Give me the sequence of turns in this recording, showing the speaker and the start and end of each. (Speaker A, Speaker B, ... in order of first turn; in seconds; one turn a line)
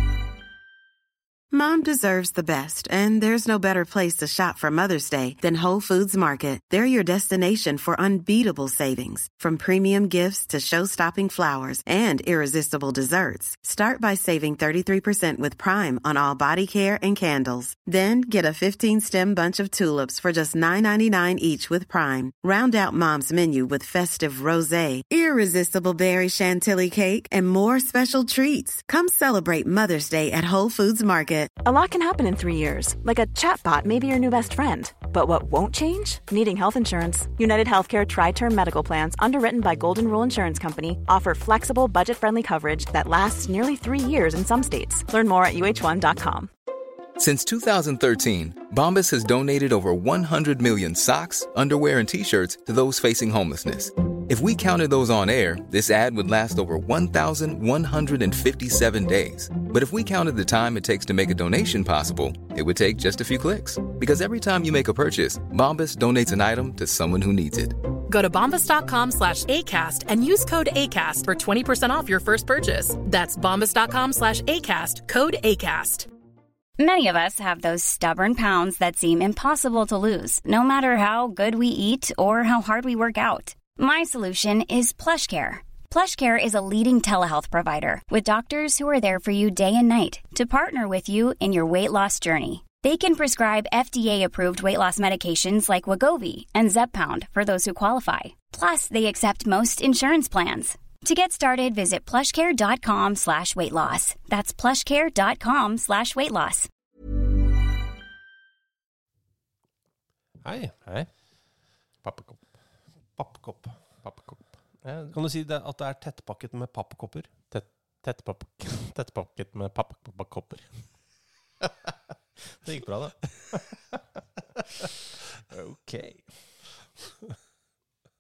Speaker A: 1.5-31.5
Speaker B: 31.6-46.5
Speaker C: 47.2-67.8
Speaker D: 68.1-76.1
Speaker E: 76.8-106.7
Speaker F: 110.4-110.7
Speaker G: 110.8-111.1
Speaker G: 112.0-112.5
Speaker F: 113.2-113.8
Speaker G: 114.0-115.2
Speaker F: 115.1-117.3
Speaker G: 117.5-120.9
Speaker G: 121.6-121.9
Speaker G: 122.5-124.2
Speaker G: 125.5-126.5